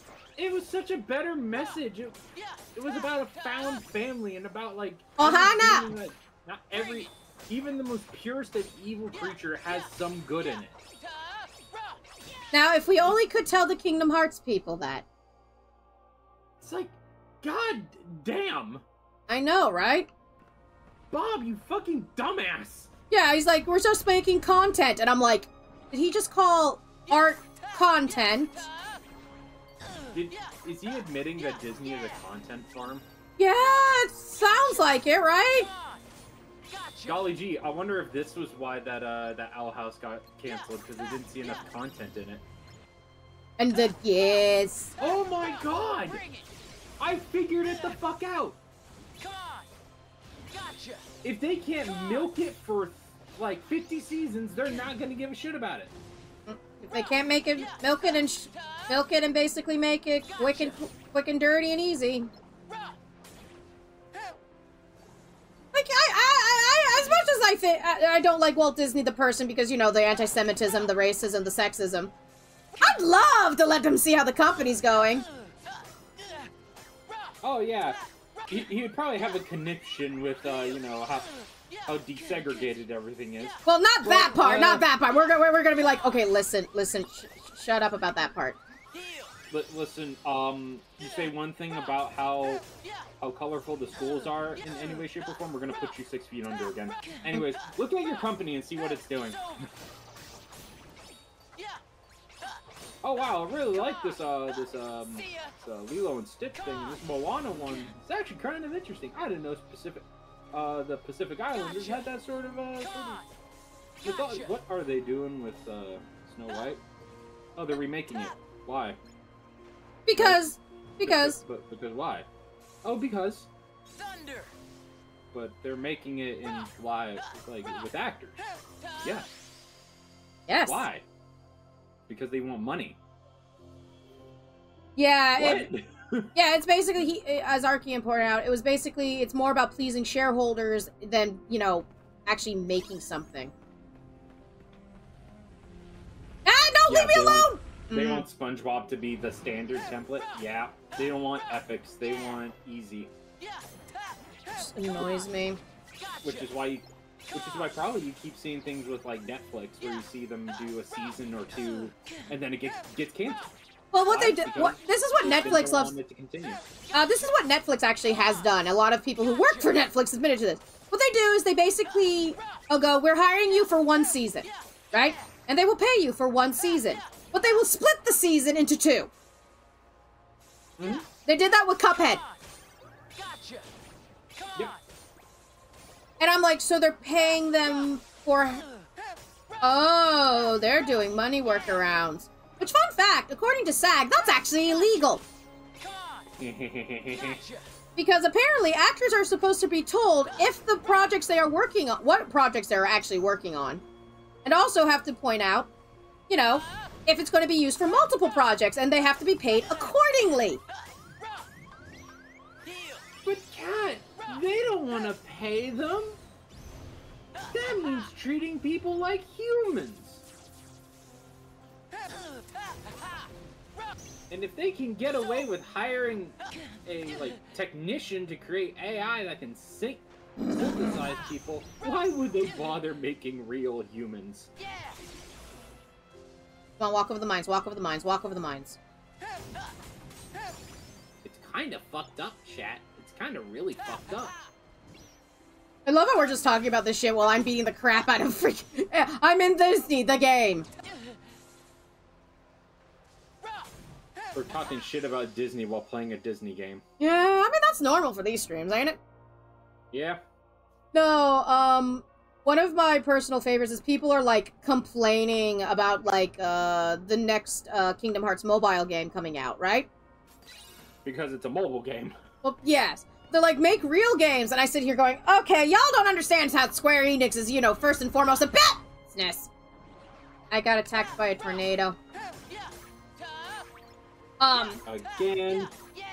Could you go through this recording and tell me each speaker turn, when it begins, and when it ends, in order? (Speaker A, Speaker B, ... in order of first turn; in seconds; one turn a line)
Speaker A: 0.4-2.2
Speaker A: 2.8-10.8
Speaker B: 5.2-5.9
Speaker B: 12.5-15.1
Speaker A: 16.6-18.8
Speaker B: 19.3-20.1
Speaker A: 21.1-22.9
Speaker B: 23.1-28.7
Speaker A: 30.1-33.0
Speaker B: 33.4-35.7
Speaker A: 37.0-42.4
Speaker B: 43.6-44.9
Speaker A: 45.0-46.2
Speaker A: 47.0-48.6
Speaker A: 51.2-55.9
Speaker B: 56.5-62.3
Speaker B: 65.7-72.1
Speaker B: 72.8-75.3
Speaker A: 77.4-78.0
Speaker A: 78.5-81.3
Speaker A: 81.9-84.9
Speaker B: 83.7-88.6
Speaker A: 89.5-92.7
Speaker A: 93.2-99.4
Speaker A: 103.0-113.2
Speaker A: 114.0-116.8
Speaker A: 117.6-119.0
Speaker B: 120.1-121.4
Speaker A: 120.2-120.5
Speaker A: 121.0-122.3
Speaker A: 122.8-123.5
Speaker A: 125.3-128.4
Speaker B: 130.5-130.8
Speaker A: 130.7-131.0
Speaker A: 132.1-133.0
Speaker B: 135.0-135.7
Speaker A: 135.4-136.3
Speaker B: 136.3-143.5
Speaker B: 146.4-148.3
Speaker A: 146.9-153.1
Speaker B: 154.6-155.6
Speaker A: 156.2-163.5
Speaker B: 163.9-165.9
Speaker A: 164.1-166.6
Speaker B: 166.9-179.1
Speaker A: 180.8-181.1
Speaker B: 181.3-182.2
Speaker B: 186.2-188.7
Speaker B: 189.6-195.2
Speaker A: 196.4-197.4
Speaker B: 198.0-203.8
Speaker B: 204.4-205.7
Speaker B: 206.3-210.6
Speaker A: 213.2-216.2
Speaker A: 217.5-220.2
Speaker A: 224.3-234.5
Speaker B: 236.8-238.8
Speaker A: 241.2-244.3
Speaker B: 245.9-250.7
Speaker A: 254.3-256.8
Speaker B: 257.0-259.0
Speaker A: 259.9-260.2
Speaker B: 260.9-269.9
Speaker A: 271.1-272.2
Speaker B: 272.4-279.5
Speaker B: 280.5-282.0
Speaker B: 284.4-284.8
Speaker A: 284.9-285.7